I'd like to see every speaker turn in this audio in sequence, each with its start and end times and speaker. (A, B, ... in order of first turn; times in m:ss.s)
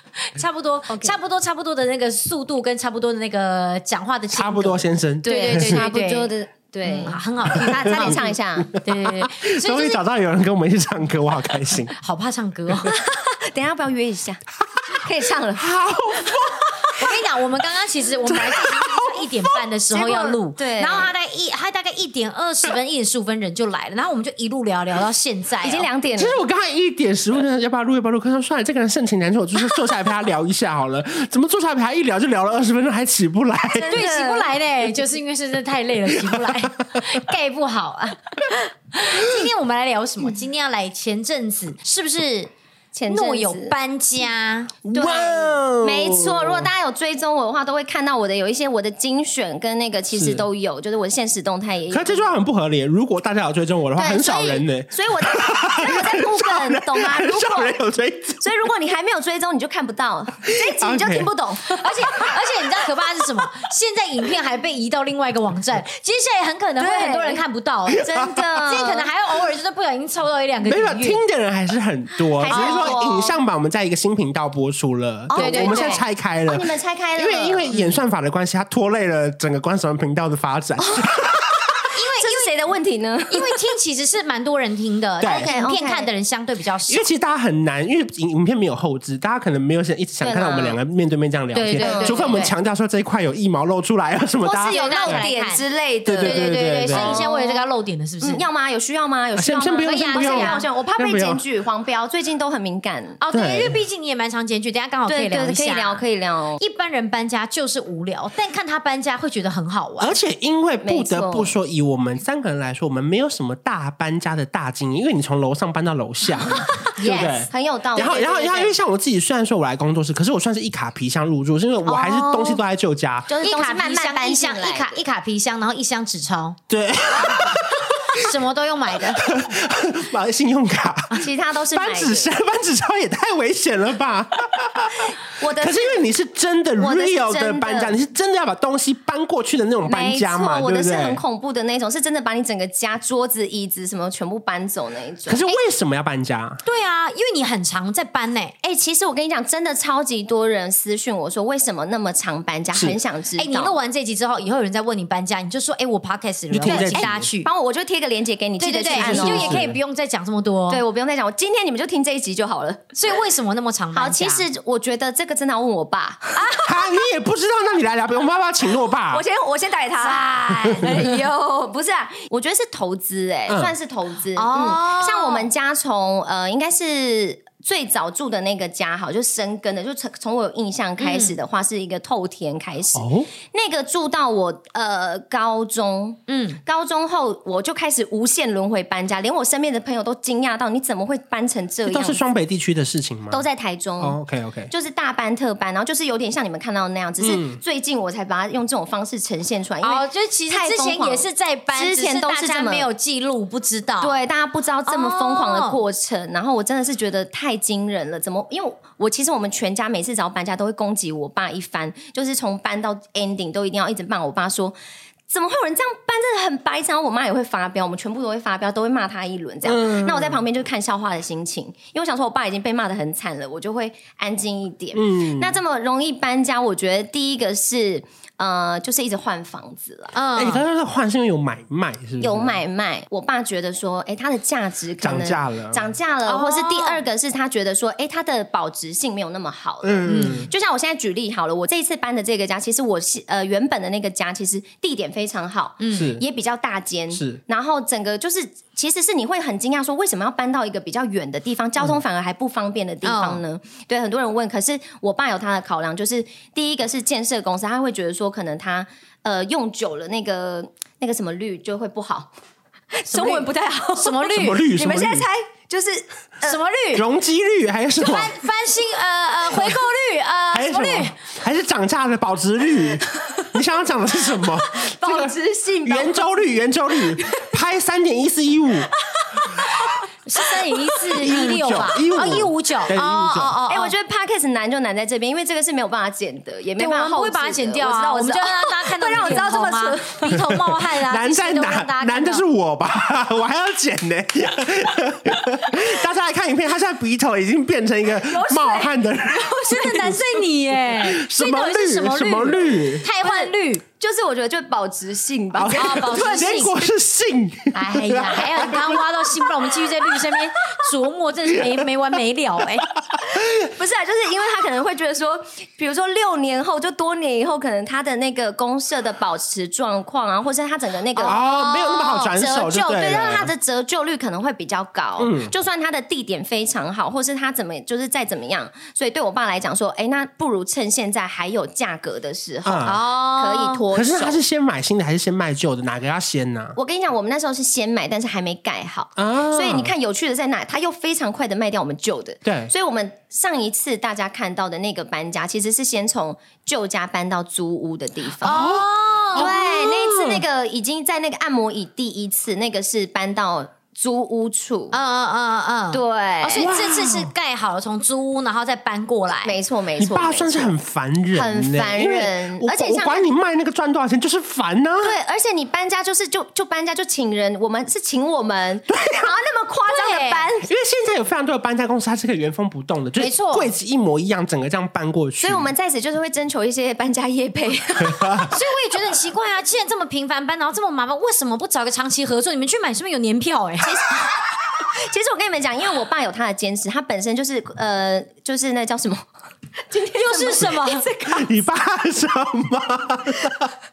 0:00.2-0:08.3 A
0:00.9-0:01.2 B
0:04.3-0:05.8 C
0:05.2-0:08.7 B
0:07.5-0:11.9 C
0:08.8-0:10.0 A
0:12.0-0:13.0 A
0:12.8-0:15.7 B
0:15.6-0:17.1 C
0:17.0-0:25.9 A
0:18.2-0:19.7 C
0:19.9-0:21.1 B
0:25.6-0:26.4 B
0:26.2-0:33.9 C
0:33.6-0:34.5 B
0:33.9-0:42.5 A
0:42.9-0:43.8 B
0:43.1-0:44.8 A
0:44.8-0:46.7 C
0:44.9-0:52.4 B
0:50.1-0:50.5 C
0:51.9-0:58.5 C
0:54.0-0:57.8 B
0:58.4-1:02.4 B
1:00.4-1:01.3 C
1:01.8-1:08.1 A
1:06.8-1:07.4 B
1:07.9-1:08.6 C
1:08.0-1:09.1 B
1:08.6-1:11.2 A
1:10.6-1:21.6 C
1:12.4-1:13.4 B
1:12.4-1:12.9 A
1:15.3-1:17.7 B
1:15.4-1:16.0 A
1:17.7-1:18.0 A
1:20.9-1:21.3 B
1:21.9-1:22.6 A
1:22.0-1:23.8 B
1:23.3-1:27.1 A
1:25.2-1:25.5 C
1:25.2-1:26.1 B
1:26.9-1:35.3 C
1:30.2-1:30.8 B
1:31.5-1:32.4 A
1:31.8-1:32.5 B
1:34.4-1:37.7 B
1:34.7-1:35.6 A
1:36.0-1:37.2 C
1:36.2-1:38.4 A
1:38.2-1:43.2 B
1:39.4-1:41.4 C
1:39.8-1:40.6 A
1:43.2-1:46.0 A
1:43.3-1:43.8 C
1:45.1-1:46.6 B
1:46.6-1:50.2 A
1:50.0-2:03.3 C
1:50.8-1:51.6 B
1:56.8-1:57.4 A
1:57.0-1:58.8 B
2:01.8-2:02.6 B
2:03.3-2:05.0 B
2:03.4-2:06.6 A
2:06.7-2:08.3 C
2:08.1-2:09.3 A
2:09.1-2:21.2 C
2:11.1-2:12.3 B
2:15.2-2:16.1 B
2:16.8-2:18.0 B
2:19.8-2:25.6 B
2:25.3-2:26.6 C
2:26.6-2:28.5 A
2:28.6-2:33.8 B
2:32.7-2:33.0 C
2:33.4-2:37.5 A
2:36.5-2:37.2 C
2:36.6-2:39.7 B
2:38.6-2:40.8 A
2:38.9-2:39.8 C
2:40.7-2:43.2 B
2:43.0-2:44.4 A
2:43.9-2:47.1 B
2:46.6-2:49.2 C
2:49.1-3:12.2 B
2:50.0-2:51.2 A
2:50.5-2:50.8 C
2:53.5-2:53.7 C
2:54.4-2:55.5 A
3:01.0-3:01.3 A
3:03.0-3:03.3 C
3:06.3-3:06.6 A
3:11.8-3:13.4 C
3:13.3-3:14.2 B
3:14.0-3:14.7 C
3:14.7-3:22.9 B
3:17.2-3:17.6 C
3:19.8-3:24.2 A
3:24.0-3:34.8 B
3:24.9-3:25.8 A
3:35.3-3:50.2 B
3:39.6-3:40.4 C
3:44.9-3:45.6 C
3:50.1-3:50.6 A
3:50.3-3:52.6 C
3:52.2-4:22.3 B
3:55.0-3:55.9 C
3:56.3-3:57.0 A
3:59.8-4:00.5 C
4:00.1-4:00.5 A
4:05.8-4:06.1 A
4:05.9-4:06.2 C
4:07.1-4:07.4 C
4:13.0-4:13.4 A
4:22.9-4:26.6 B
4:23.1-4:24.7 A
4:24.4-4:25.3 C
4:26.4-4:27.0 A
4:26.9-4:28.3 C
4:28.0-4:31.2 A
4:30.5-4:38.9 C
4:33.2-4:33.4 B
4:34.7-4:36.4 B
4:37.1-4:37.5 B
4:39.1-4:41.1 B
4:40.3-4:43.9 A
4:41.1-4:43.6 C
4:43.6-4:50.4 B
4:46.8-4:52.4 A
4:50.3-4:59.8 C
4:58.1-5:00.4 B
4:59.7-5:03.8 A
5:00.9-5:03.0 C
5:03.2-5:06.6 B
5:05.5-5:09.0 C
5:05.7-5:06.8 A
5:07.7-5:12.9 A
5:08.7-5:09.0 B
5:13.1-5:13.7 C
5:13.6-5:21.4 B
5:21.2-5:23.2 A
5:21.2-5:23.5 C
5:22.8-5:34.4 B
5:25.2-5:25.5 C
5:32.6-5:33.0 C
5:32.8-5:33.8 A
5:33.9-5:36.8 C
5:36.8-5:48.7 B
5:39.2-5:39.9 C
5:42.4-5:42.7 C
5:48.4-5:49.6 A
5:48.4-5:50.4 C
5:49.4-5:55.0 B
5:54.9-5:59.6 A
5:55.9-5:56.7 B
5:56.6-5:57.3 C
5:59.4-6:00.8 B
6:00.0-6:05.2 C
6:01.3-6:03.3 B
6:05.0-6:10.7 B
6:08.9-6:09.3 C
6:09.9-6:10.5 A
6:10.7-6:15.7 C
6:13.2-6:13.7 A
6:15.4-6:18.5 B
6:18.4-6:24.1 A
6:23.8-6:29.3 B
6:29.9-6:31.5 B
6:30.1-6:31.1 A
6:31.3-6:33.7 C